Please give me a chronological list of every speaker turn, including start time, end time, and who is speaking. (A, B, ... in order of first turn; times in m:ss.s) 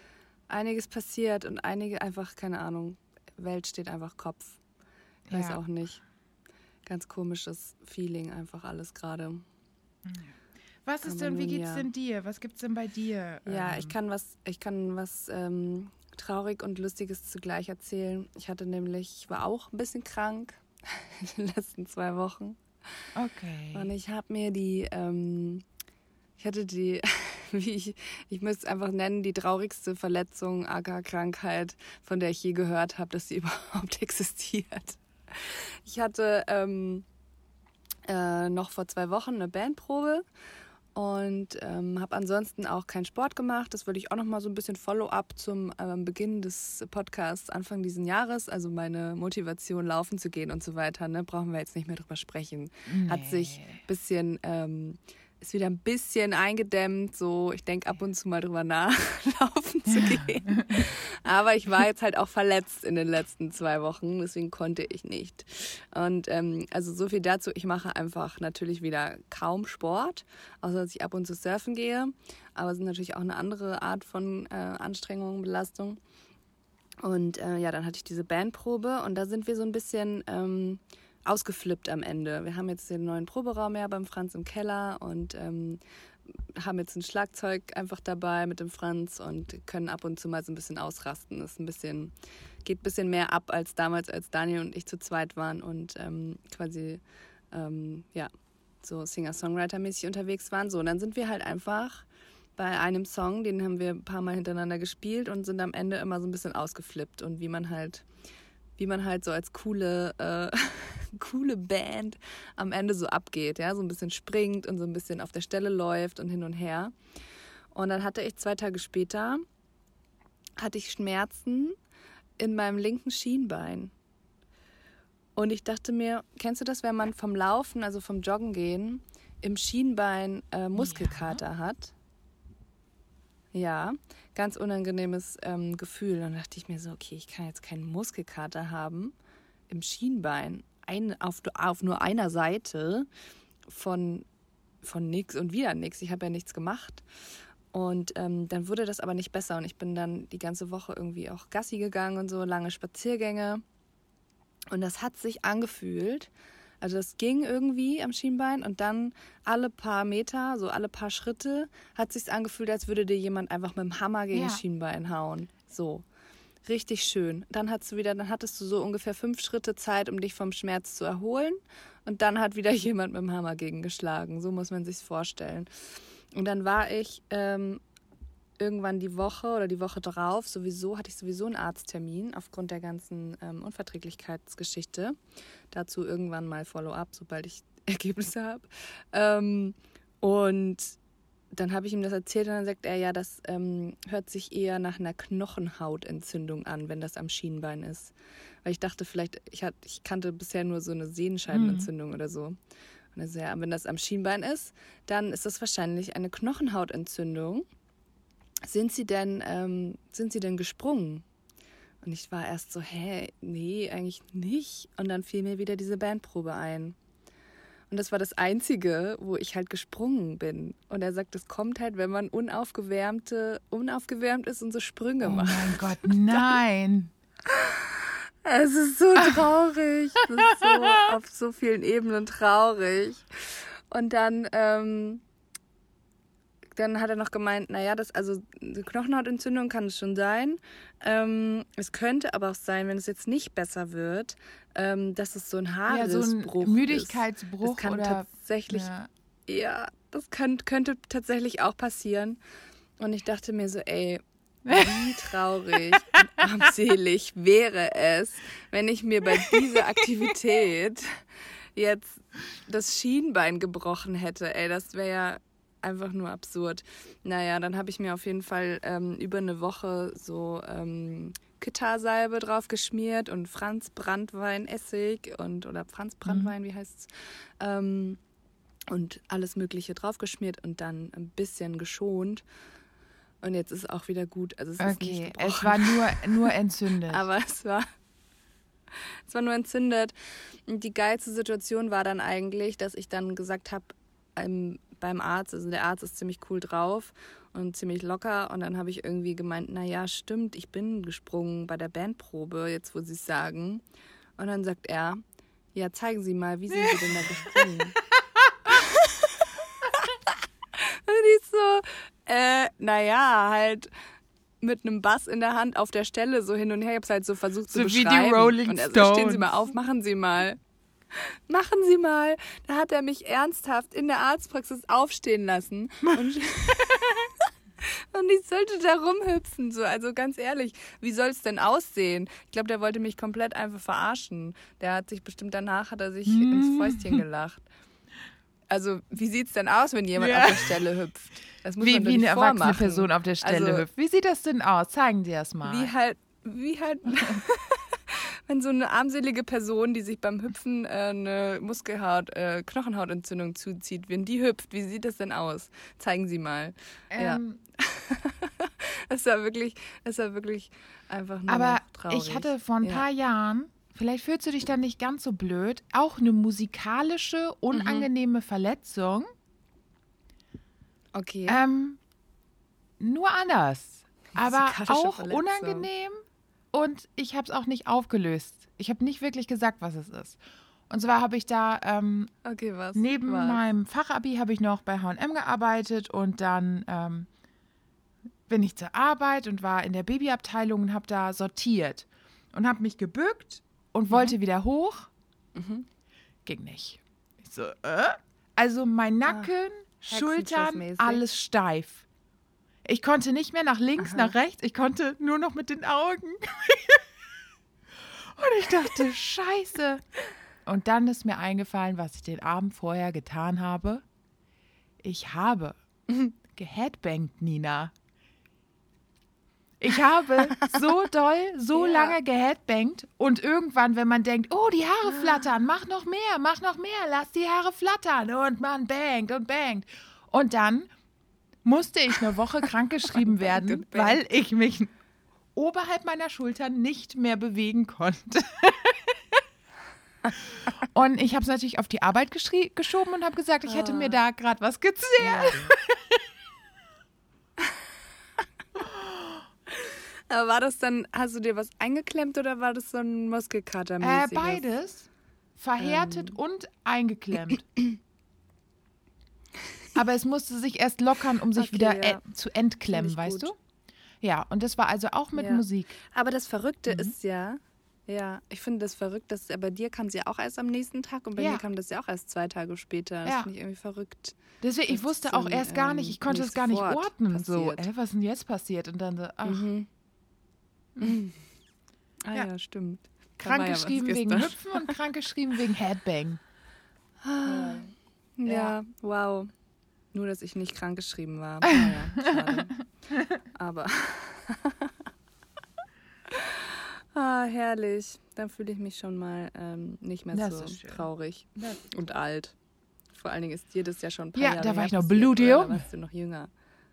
0:00.5-0:04.6 A
0:05.3-0:05.6 B
0:05.3-0:06.0 A
0:06.8-0:09.4 A
0:10.0-0:13.9 B
0:11.0-0:11.9 A
0:13.4-0:22.6 A
0:23.1-0:23.9 B
0:23.7-0:25.6 A
0:26.4-0:37.0 A
0:38.0-0:40.2 A
0:40.9-1:16.0 A
0:52.9-0:53.8 B
0:59.9-1:00.9 B
1:17.0-1:25.8 A
1:26.6-1:32.1 A
1:32.6-1:38.3 A
1:38.8-1:42.0 A
1:42.6-1:48.1 A
1:48.8-1:56.9 A
1:57.7-1:59.4 A
2:00.6-2:01.8 A
2:02.4-2:03.9 A
2:05.4-2:11.9 A
2:10.8-2:11.4 B
2:13.5-2:19.1 A
2:19.7-2:23.1 A
2:23.7-2:24.2 A
2:24.8-2:27.0 A
2:27.7-2:33.6 A
2:34.7-2:36.3 A
2:36.8-2:46.0 A
2:44.3-2:44.6 B
2:46.6-2:55.7 A
2:56.3-2:57.8 A
2:58.6-3:05.1 A
3:05.7-3:11.0 A
3:11.5-3:22.6 A
3:21.5-3:21.9 B
3:23.1-3:27.6 A
3:28.6-3:31.2 A
3:32.0-3:37.0 A
3:37.9-3:46.5 A
3:45.2-3:47.1 B
3:47.4-3:55.2 A
3:50.6-3:51.0 B
3:56.8-4:08.9 A
4:05.9-4:09.1 B
4:09.5-4:12.4 A
4:13.0-4:21.2 A
4:14.6-4:16.0 B
4:21.8-4:38.2 A
4:36.3-4:36.5 B
4:38.9-4:42.4 A
4:43.4-4:46.5 A
4:44.8-4:47.2 B
4:47.1-4:47.8 A
4:49.3-5:03.8 A
5:04.4-5:05.2 A
5:05.7-5:08.0 A
5:06.7-5:07.6 B
5:08.4-5:08.7 B
5:08.7-5:13.9 A
5:14.6-5:20.6 A
5:17.7-5:19.7 B
5:21.1-5:37.6 A
5:36.3-5:37.2 B
5:38.7-5:43.8 A
5:40.2-5:40.8 B
5:41.8-5:45.9 B
5:45.6-6:03.0 A
5:57.1-5:57.6 B
6:01.5-6:09.3 B
6:07.7-6:08.1 A
6:11.1-6:11.6 A
6:11.5-6:12.0 B
6:13.0-6:16.2 B
6:14.3-6:15.9 A
6:16.7-6:22.3 B
6:22.4-6:23.6 A
6:22.9-6:27.3 B
6:28.5-6:35.1 B
6:34.1-6:34.4 A
6:35.5-6:35.8 A
6:36.4-6:42.0 B
6:40.0-6:41.2 A
6:42.8-6:47.0 B
6:44.0-6:44.3 A
6:47.9-6:50.0 B
6:50.6-6:54.0 B
6:55.0-6:55.8 B
6:56.5-6:57.9 B
6:59.8-7:10.9 B
7:01.7-7:02.2 A
7:05.1-7:05.4 A
7:11.6-7:14.9 B
7:13.1-7:14.2 A
7:15.5-7:19.4 B
7:20.4-7:26.2 B
7:23.6-7:24.2 A
7:25.2-7:25.7 A
7:28.8-7:29.4 B
7:29.8-7:34.6 A
7:34.0-7:37.6 B
7:35.8-7:36.4 A
7:39.9-7:43.6 B
7:41.5-7:42.2 A
7:42.9-7:43.5 A
7:44.2-7:45.9 B
7:45.3-7:57.9 A
7:51.4-7:51.6 B
7:53.2-7:53.5 B
7:54.6-7:59.7 B
7:59.4-7:59.9 A
8:01.0-8:01.4 A
8:02.2-8:04.9 A
8:03.4-8:06.4 B
8:07.2-8:09.5 A
8:07.5-8:07.8 B
8:08.4-8:08.8 B
8:10.1-8:12.8 A
8:11.7-8:12.6 B
8:13.1-8:13.4 B
8:13.5-8:14.9 A
8:16.3-8:22.6 A
8:20.3-8:21.0 B
8:23.1-8:26.5 A
8:24.3-8:25.8 B